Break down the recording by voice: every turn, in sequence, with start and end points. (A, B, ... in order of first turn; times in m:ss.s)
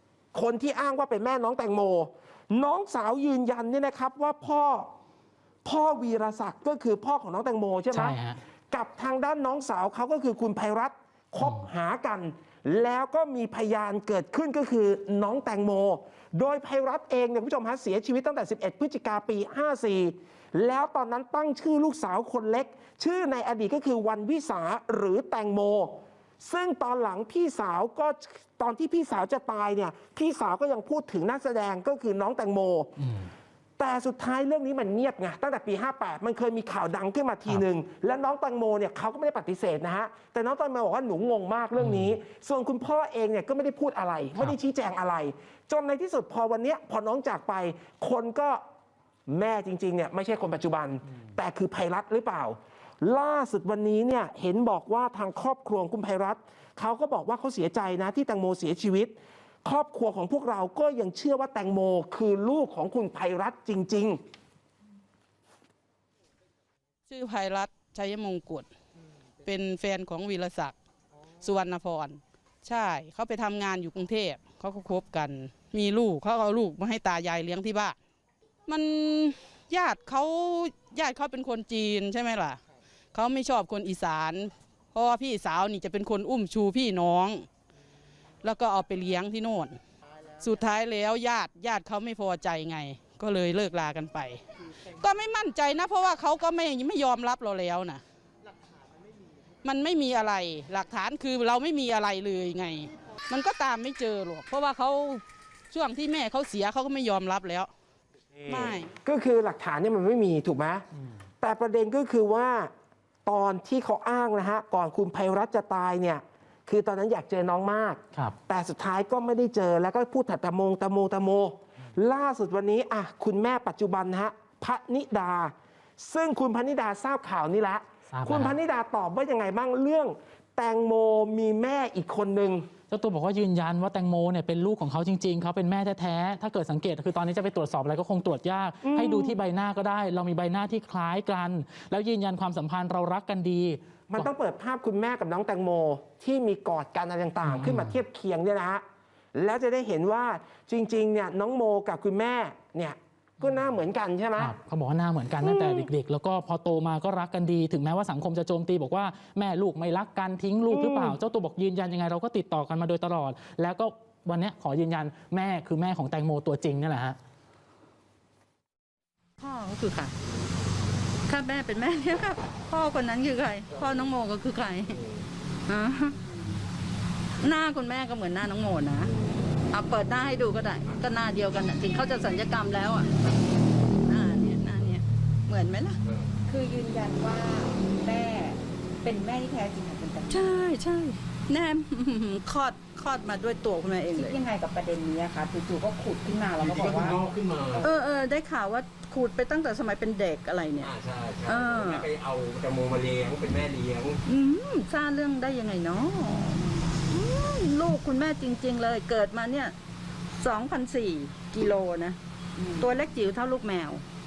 0:00.3-0:04.9 A
0:05.6-0:08.2 A
0:07.9-0:08.4 B
0:08.7-0:33.1 A
0:33.8-0:48.6 A
0:41.8-0:42.1 B
0:49.3-1:04.2 A
1:07.1-1:08.7 C
1:09.4-1:10.8 C
1:11.4-1:18.0 C
1:18.7-1:22.6 C
1:23.1-1:27.5 C
1:28.4-1:29.8 C
1:30.4-1:38.0 C
1:39.6-1:47.7 C
1:48.5-1:48.9 C
1:48.5-1:50.8 A
1:51.4-1:52.7 A
1:53.3-2:12.7 A
2:08.1-2:08.6 B
2:12.9-2:24.3 B
2:18.8-2:19.4 A
2:24.1-2:28.8 A
2:27.5-2:28.0 B
2:29.3-2:34.5 A
2:34.4-2:47.2 B
2:35.4-2:35.9 A
2:40.7-2:41.2 A
2:49.4-2:50.1 D
2:51.3-2:55.0 D
2:51.4-2:53.5 E
2:53.7-2:54.1 F
2:54.8-2:55.3 F
2:55.7-2:56.2 D
2:55.7-2:56.0 E
2:57.4-2:59.1 D
2:59.0-2:59.6 F
2:59.7-3:03.1 D
3:04.0-3:06.0 D
3:04.6-3:05.0 F
3:06.0-3:06.3 F
3:06.5-3:10.5 E
3:10.3-3:14.4 D
3:14.1-3:17.2 E
3:16.6-3:18.0 F
3:17.8-3:20.9 D
3:18.8-3:19.2 E
3:20.0-3:20.9 E
3:20.8-3:24.2 F
3:21.5-3:21.9 D
3:21.5-3:22.0 E
3:24.3-3:29.7 D
3:28.2-3:29.3 E
3:30.4-3:32.1 D
3:30.5-3:33.1 E
3:33.0-3:34.0 D